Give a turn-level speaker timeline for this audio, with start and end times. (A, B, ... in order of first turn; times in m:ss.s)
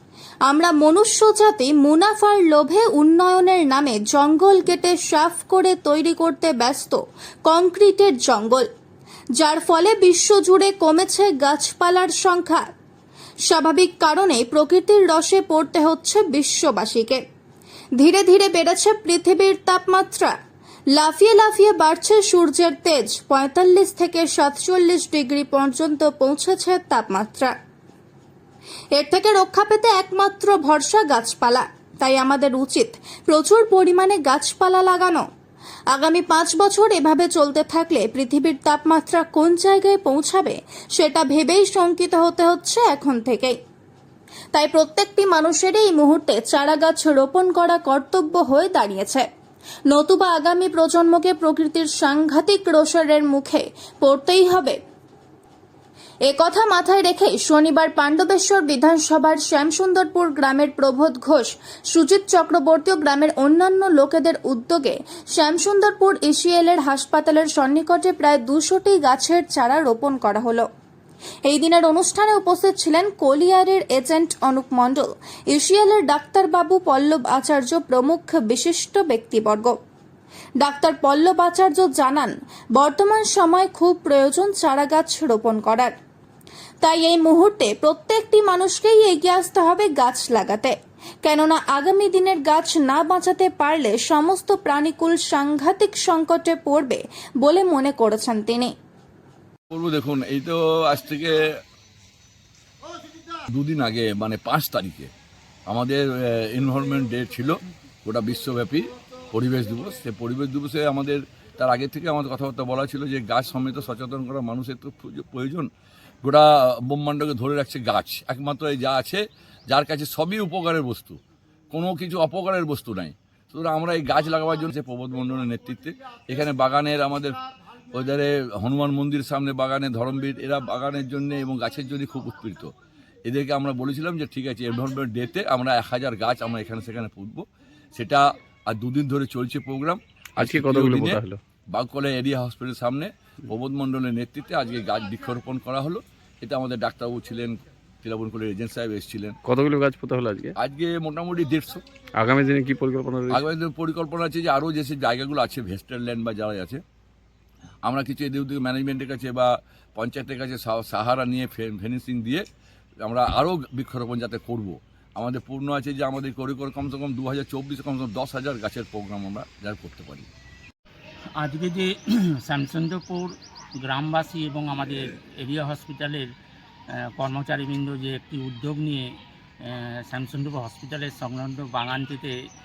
0:00.5-0:08.7 A
0:09.4-0:12.7 A
0:13.5-0:17.2 A
0:18.0-0:20.3 A
0:20.9-0:27.5 A
0:28.9-0:35.3 A
0:35.9-0:43.6 A
0:44.5-0:49.3 A
0:49.9-0:54.8 A
0:56.3-1:10.7 A
1:11.5-1:19.8 A
1:20.6-1:25.9 A
1:26.8-1:38.7 A
1:39.7-1:41.6 B
1:43.5-1:45.1 B
1:45.7-1:55.7 B
1:56.2-2:01.2 B
2:01.7-2:07.4 B
2:07.9-2:12.7 B
2:13.3-2:21.2 B
2:20.4-2:21.4 C
2:21.7-2:29.4 B
2:29.5-2:30.5 C
2:30.6-2:31.8 B
2:32.2-2:33.4 C
2:33.3-2:36.8 B
2:37.9-2:42.4 B
2:43.0-2:50.3 B
2:51.4-2:56.3 D
2:56.9-2:59.1 D
2:59.6-3:02.3 D